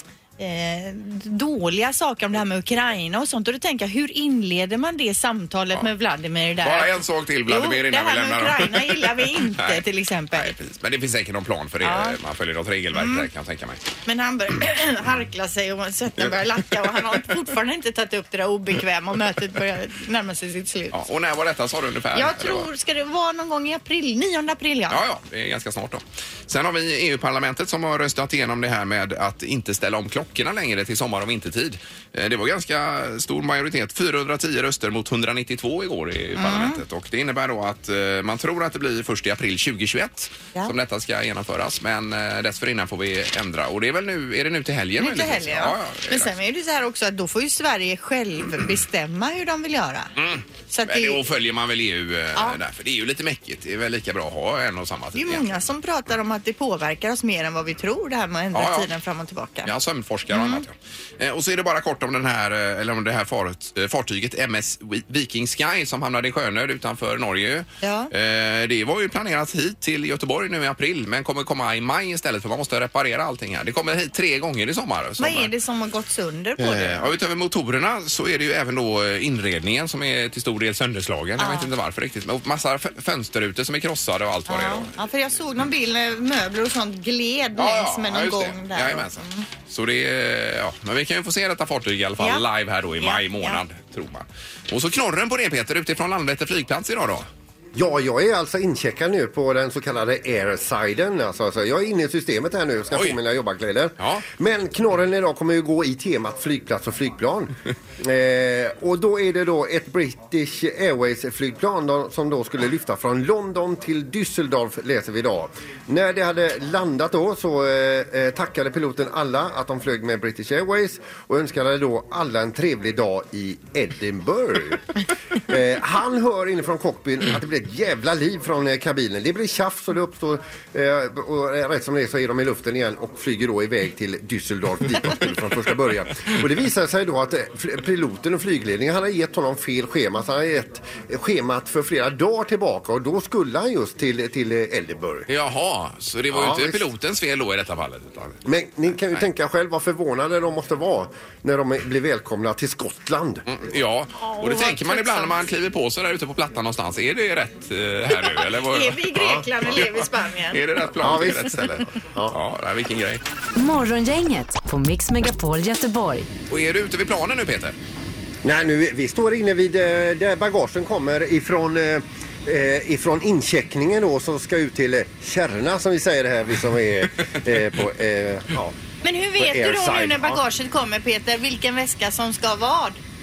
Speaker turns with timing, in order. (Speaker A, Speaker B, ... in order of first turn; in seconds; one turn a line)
Speaker A: 0.4-10.5
Speaker B: 6.6-13.8
Speaker A: 11.8-12.2
Speaker A: 12.9-13.3
Speaker A: 14.1-21.0
Speaker B: 20.9-22.7
Speaker A: 22.1-25.0
Speaker B: 24.9-46.3
Speaker A: 36.4-36.8
Speaker A: 45.0-50.1
Speaker B: 50.1-55.5
Speaker A: 50.7-51.2
Speaker A: 55.1-59.7
Speaker B: 58.5-58.9
Speaker B: 59.6-75.5
Speaker A: 60.3-60.6
Speaker A: 67.8-68.1
Speaker A: 75.2-77.1
Speaker B: 76.6-84.9
Speaker A: 81.4-81.7
Speaker A: 84.5-89.5
Speaker B: 87.6-97.2
Speaker A: 92.2-92.5
Speaker A: 93.0-93.6
Speaker C: 97.8-124.9
Speaker B: 102.9-103.2
Speaker B: 104.0-104.3
Speaker C: 125.5-145.3
Speaker B: 145.3-148.4
Speaker C: 146.3-146.9
Speaker C: 148.4-153.4
Speaker B: 153.5-163.2
Speaker A: 154.2-155.4
Speaker A: 158.1-160.6
Speaker C: 161.0-162.4
Speaker D: 163.6-166.3
Speaker B: 166.5-167.8
Speaker C: 168.4-178.8
Speaker A: 179.0-183.0
Speaker C: 179.4-180.4